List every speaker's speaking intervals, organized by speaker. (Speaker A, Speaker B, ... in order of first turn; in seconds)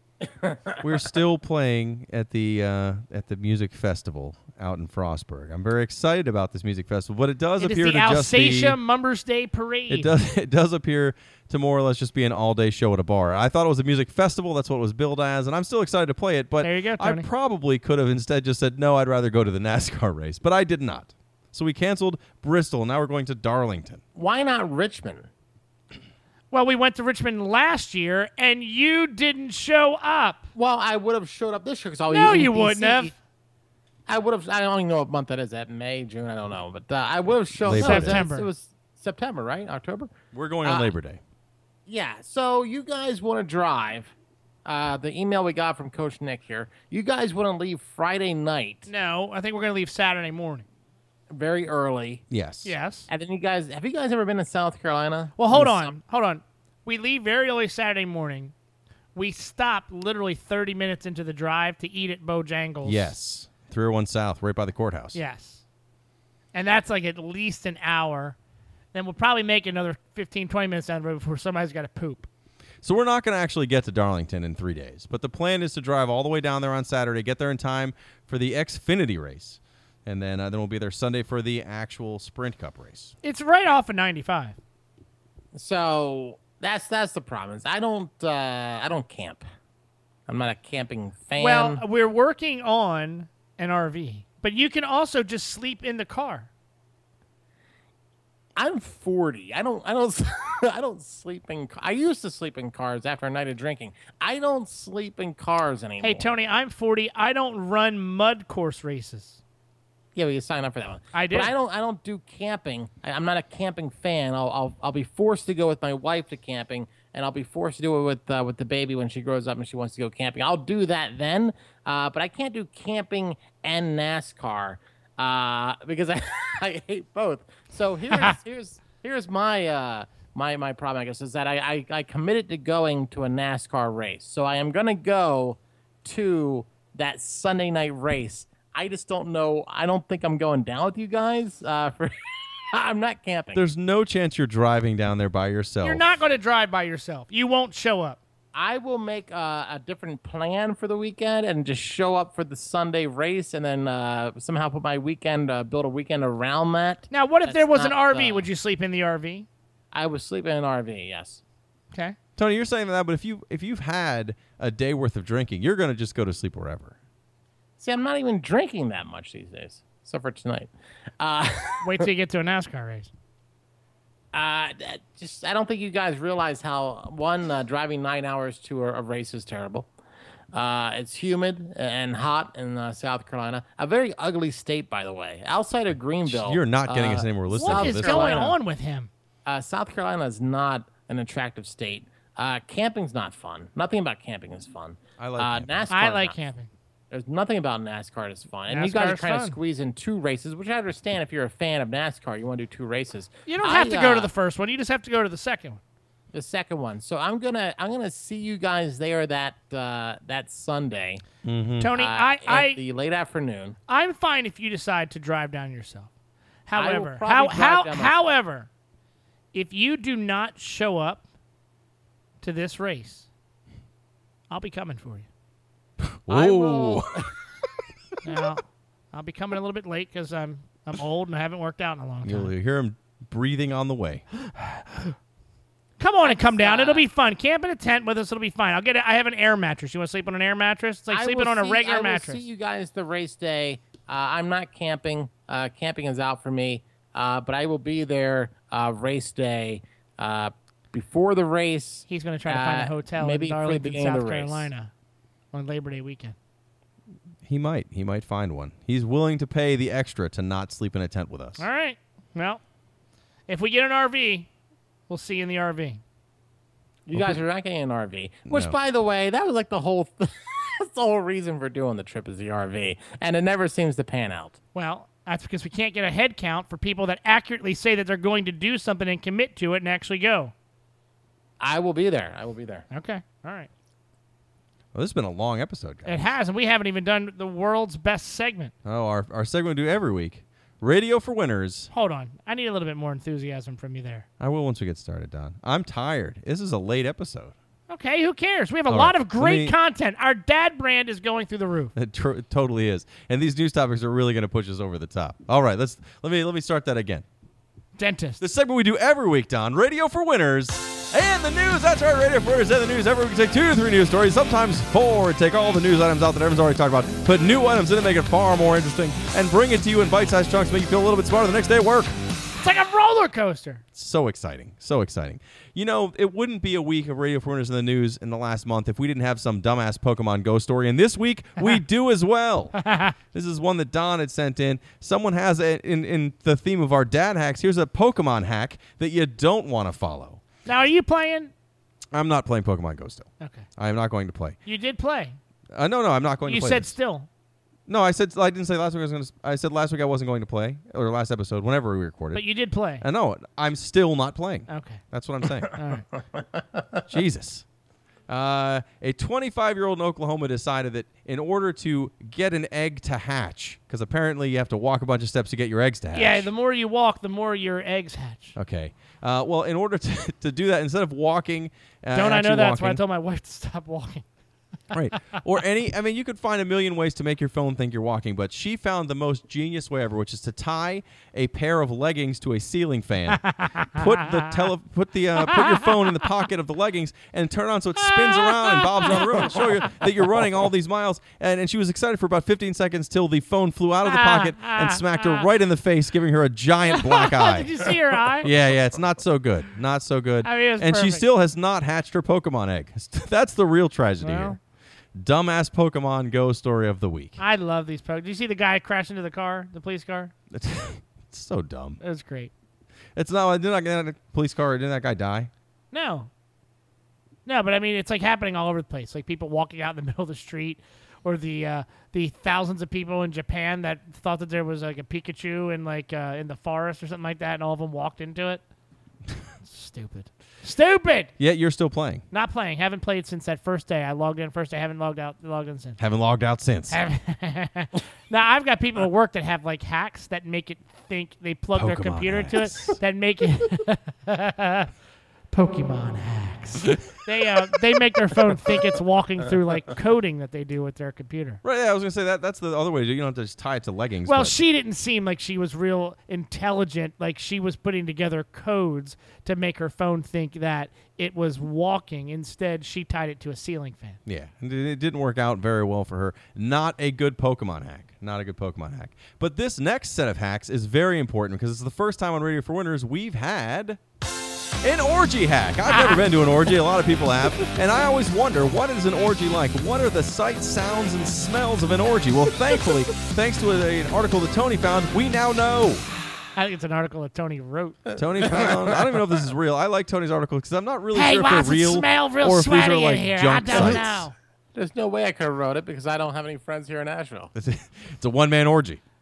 Speaker A: 0.3-0.8, 24.1-25.3, 30.6-33.1, 34.1-40.1, 40.6-40.9, 41.9-44.1, 44.6-48.9, 51.3-52.2, 53.1-56.0, 85.5-89.4, 90.3-91.8, 98.6-106.3, 110.1-142.2, 142.7-143.6, 148.5-158.5, 159.9-161.4, 167.8-172.1, 174.3-179.9, 180.5-188.6, 189.4-196.4, 197.1-204.3, 206.3-211.2, 211.9-213.8, 216.8-218.3, 226.3-227.3, 236.2-237.1, 241.1-254.7, 267.1-274.6, 281.6-282.9, 356.3-357.0, 488.5-489.0, 494.7-497.5
Speaker B: 0.8-8.8, 9.9-24.0, 37.6-38.2, 40.3-41.2, 52.3-52.7, 62.8-65.2, 72.8-83.1, 143.5-146.0, 162.4-166.9, 186.2-188.5, 195.2-195.8, 211.4-211.9, 226.0-227.2, 232.2-234.2, 257.4-261.7, 267.1-267.4, 268.5-268.7, 284.9-286.3, 288.8-291.9, 294.4-297.5, 298.9-299.8, 301.9-307.2, 308.4-322.1, 323.9-332.8, 333.3-340.4, 342.1-344.6, 345.7-346.9, 347.9-352.4, 353.0-355.7, 357.1-357.6, 358.3-366.5, 368.6-373.0, 374.9-397.8, 398.4-404.6, 405.1-407.4, 410.5-412.0, 413.1-415.5, 431.4-432.2, 436.0-437.0, 441.7-443.0, 451.6-454.6, 464.2-474.0, 474.8-486.1, 488.1-494.3, 497.5-499.0
Speaker C: 7.6-10.1, 16.6-17.3, 26.5-30.5, 32.1-33.1, 37.7-38.5, 48.9-50.6, 52.6-53.1, 55.4-58.5, 59.1-63.1, 65.1-65.6, 66.5-68.3, 68.9-72.3, 83.2-84.5, 91.4-96.5, 106.0-109.4, 111.1-111.5, 145.8-148.2, 157.1-159.5, 171.8-173.1, 187.6-189.1, 195.9-196.7, 198.7-199.6, 203.5-205.8, 211.8-212.8, 213.9-216.1, 216.7-218.7, 219.5-221.2, 222.4-223.3, 224.5-225.3, 228.2-232.5, 236.0-242.4, 252.1-254.9, 255.5-256.3, 261.6-262.6, 263.5-264.5, 265.1-266.0, 274.7-280.5, 282.9-283.7, 286.0-288.7, 291.9-294.2, 297.9-301.9, 308.0-308.4, 322.6-323.8, 332.8-333.1, 340.6-341.5, 343.4-343.6, 344.6-345.4, 346.4-347.3, 352.3-353.1, 354.7-355.0, 355.7-356.1, 366.1-368.6, 372.1-374.2, 383.3-384.6, 385.4-386.0, 388.0-389.7, 394.1-395.4, 396.9-398.5, 400.4-401.2, 404.2-404.6, 407.4-410.3, 412.0-412.5, 415.9-416.3, 417.4-428.6, 429.6-431.3, 432.3-436.0, 436.9-444.9, 445.5-451.6, 454.2-464.2, 486.6-488.1, 491.1-494.3